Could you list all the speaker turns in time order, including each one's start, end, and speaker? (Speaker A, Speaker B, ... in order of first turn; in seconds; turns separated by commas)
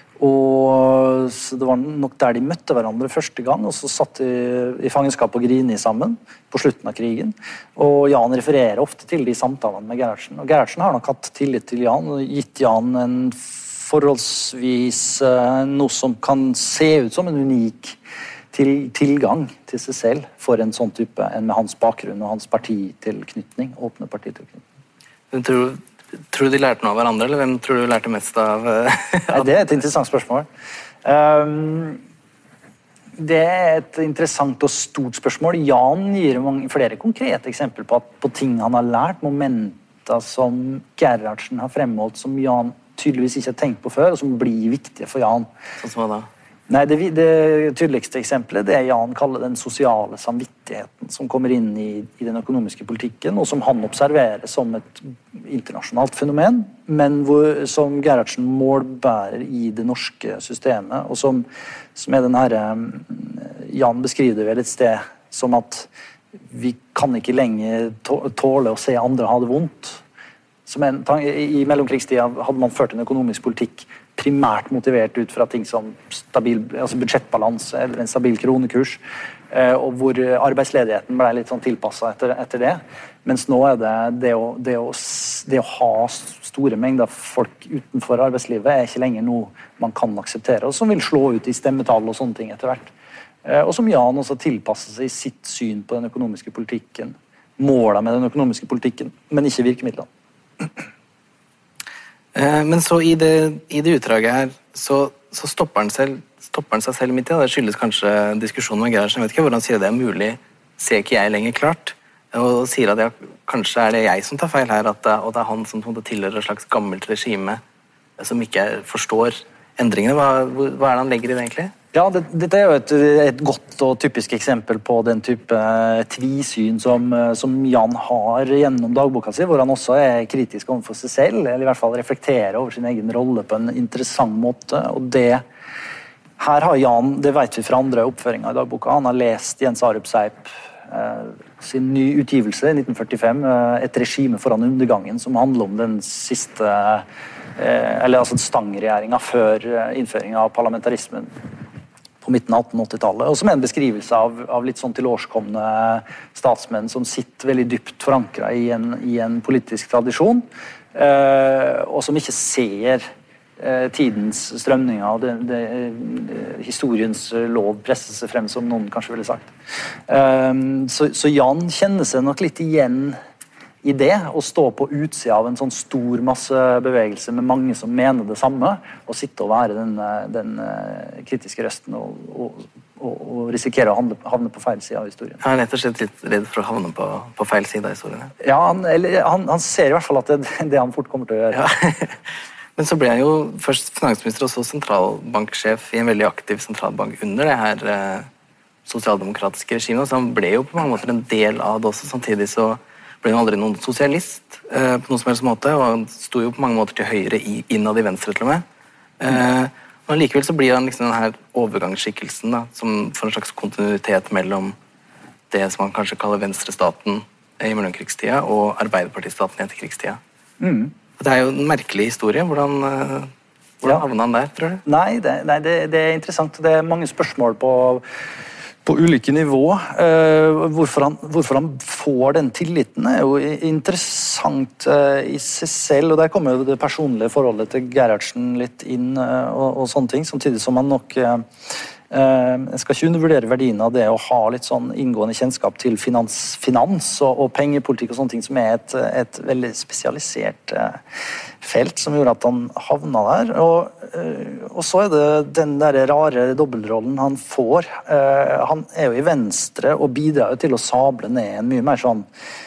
Speaker A: 0.2-18.0, Speaker A: 18.5-24.6, Speaker B: 25.3-29.5, Speaker A: 29.3-30.5, Speaker A: 31.1-32.0, Speaker A: 33.2-45.5, Speaker B: 45.8-46.3, Speaker A: 46.7-65.9, Speaker A: 66.5-70.0, Speaker A: 70.7-79.0, Speaker A: 79.5-92.9, Speaker A: 93.5-100.1, Speaker B: 102.3-117.6, Speaker B: 118.2-121.7, Speaker A: 121.9-135.4, Speaker A: 136.4-147.1, Speaker A: 147.6-151.3, Speaker A: 152.2-163.1, Speaker A: 163.6-169.5, Speaker A: 170.1-173.2, Speaker A: 173.8-185.4, Speaker B: 185.4-188.3, Speaker A: 188.4-191.7, Speaker B: 191.5-192.2, Speaker B: 192.8-198.3, Speaker B: 198.8-208.6, Speaker B: 209.2-214.8, Speaker B: 215.5-220.2, Speaker A: 220.6-220.9, Speaker B: 221.2-224.8, Speaker A: 224.8-228.0, Speaker A: 228.8-251.0, Speaker A: 251.6-262.3